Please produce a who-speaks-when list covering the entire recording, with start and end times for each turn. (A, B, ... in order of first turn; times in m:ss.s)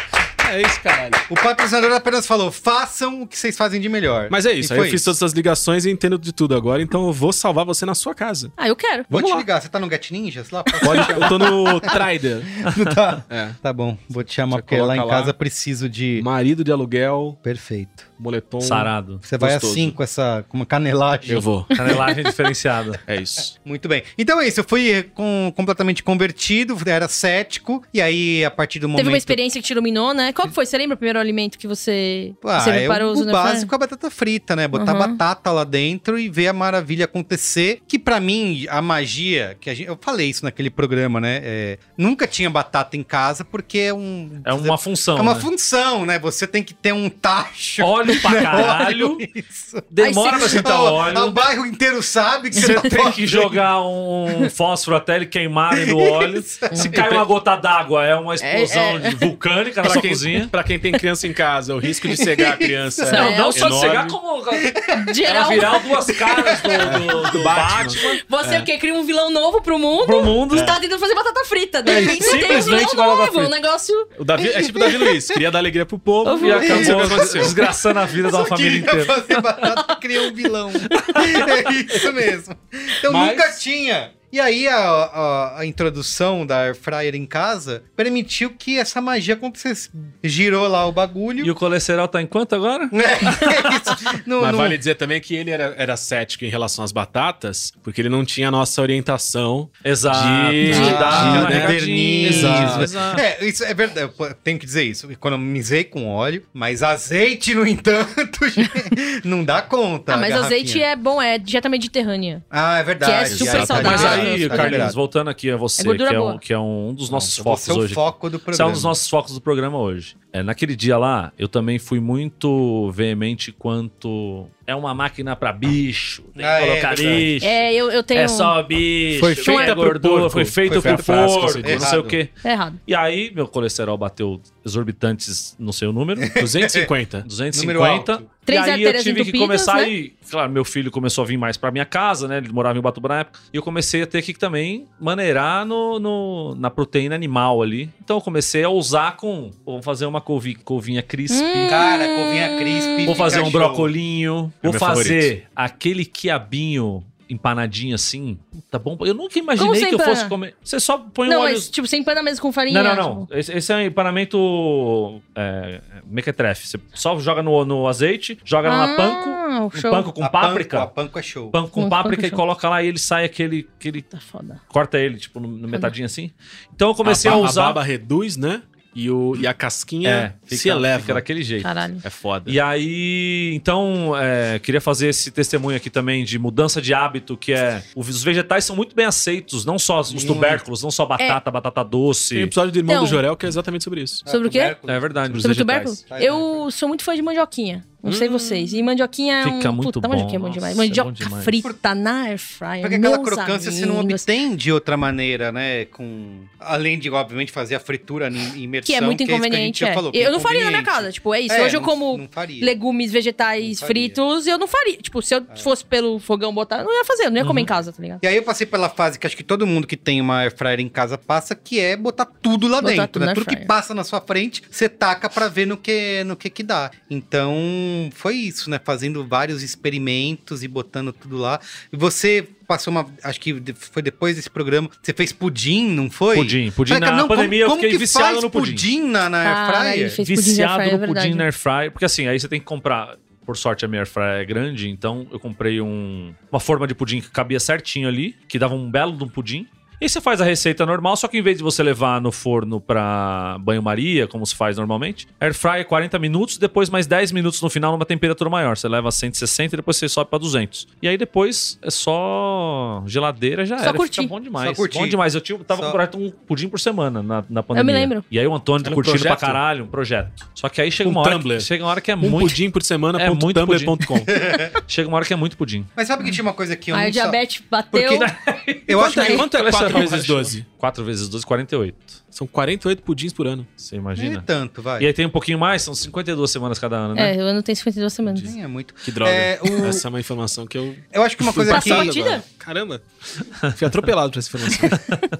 0:00.4-0:01.2 A
0:01.3-0:05.2 B
0:04.3-0:08.5 A
0:08.6-0:09.1 C
0:09.1-0:09.4 A
0:09.1-0:12.0 B
0:10.8-0:12.6 A
0:12.6-0:16.3 B
0:13.3-0:13.6 A
0:14.5-0:15.3 A
0:16.2-0:17.4 A
0:17.4-0:18.1 B
0:18.2-0:19.9 A
0:18.6-0:19.2 D
0:19.2-0:21.5 B
0:21.3-0:21.8 A
0:21.7-0:23.0 D
0:21.8-0:22.0 C
0:23.1-0:23.5 A
0:23.6-0:29.4 B
0:29.0-0:33.7 C
0:32.4-0:53.6 B
0:34.7-0:35.2 C
0:44.4-0:45.5 D
0:47.8-0:49.2 D
0:49.9-0:51.4 D
0:50.0-0:50.6 C
0:52.6-1:00.5 D
0:55.7-0:56.8 B
0:56.7-0:57.0 C
0:56.9-0:57.2 A
0:58.4-0:59.2 C
0:59.8-1:04.2 A
1:02.2-1:03.0 B
1:03.0-1:03.9 C
1:03.1-1:08.2 D
1:04.6-1:05.1 B
1:04.9-1:05.9 C
1:06.1-1:07.0 B
1:06.8-1:08.7 A
1:08.0-1:14.1 C
1:10.0-1:10.8 D
1:10.5-1:10.8 A
1:11.8-1:13.5 D
1:14.2-1:17.6 A
1:14.4-1:15.4 B
1:16.2-1:16.9 C
1:16.3-1:19.7 D
1:16.6-1:31.5 B
1:20.9-1:21.2 C
1:20.9-1:21.6 D
1:23.1-1:23.6 A
1:31.4-1:33.5 D
1:32.9-1:34.8 B
1:34.4-1:43.0 A
1:39.8-1:43.2 D
1:40.6-1:50.8 B
1:40.6-1:41.2 C
1:48.6-1:48.9 C
1:50.1-1:52.4 C
1:52.5-1:55.0 B
1:53.0-1:54.9 C
1:53.3-1:54.3 A
1:53.7-2:16.4 D
1:55.8-1:56.4 C
1:57.1-1:58.9 B
2:06.4-2:07.3 B
2:07.4-2:08.5 C
2:09.1-2:11.9 A
2:09.4-2:09.8 C
2:10.6-2:12.2 B
2:12.4-2:12.8 C
2:16.2-2:16.9 B
2:16.3-2:17.3 A
2:17.2-2:31.8 D
2:17.5-2:18.2 B
2:18.4-2:19.9 C
2:31.3-2:33.5 C
2:31.6-2:33.9 B
2:33.0-2:41.7 D
2:34.6-2:35.3 A
2:39.6-2:40.3 C
2:41.2-2:43.3 C
2:42.7-2:50.9 D
2:48.6-2:50.1 C
2:50.2-2:51.6 B
2:51.5-2:54.1 D
2:51.8-2:52.4 C
2:54.1-2:54.6 C
2:54.7-2:57.8 D
2:57.0-3:01.2 A
3:00.0-3:01.7 D
3:01.6-3:02.0 C
3:02.0-3:02.6 A
3:02.4-3:12.5 D
3:10.1-3:10.6 B
3:12.3-3:14.2 A
3:12.9-3:13.2 C
3:14.2-3:15.4 B
3:14.3-3:14.7 C
3:14.8-3:15.9 D
3:15.3-3:15.9 A
3:15.4-3:24.3 C
3:16.1-3:16.6 B
3:18.0-3:18.8 A
3:19.4-3:21.6 D
3:22.8-3:32.7 B
3:28.8-3:38.2 C
3:33.6-3:34.2 B
3:37.4-3:37.7 D
3:38.2-4:00.2 B
3:42.8-3:43.7 C
3:56.3-3:58.8 D
3:59.4-4:01.4 C
4:00.2-4:32.6 D
4:23.8-4:24.3 C
4:24.6-4:25.2 B
4:25.7-4:26.0 B
4:27.7-4:28.2 C
4:28.8-4:29.6 A
4:31.0-4:31.7 A
4:32.2-4:34.4 A
4:33.1-4:34.1 D
4:34.3-4:34.7 B
4:34.8-4:35.9 D
4:36.0-4:37.4 B
4:36.9-4:38.3 C
4:37.9-4:38.3 B
4:38.2-4:42.2 D
4:38.9-4:40.0 B
4:38.9-4:40.6 A
4:39.0-4:39.4 C
4:42.3-4:43.7 A
4:43.8-4:44.4 D
4:44.2-4:45.1 B
4:45.0-4:47.4 D
4:47.2-4:48.5 C
4:48.3-4:50.0 B
4:49.0-4:55.0 A
4:51.1-4:52.2 B
4:51.7-4:52.4 C
4:54.9-4:55.2 D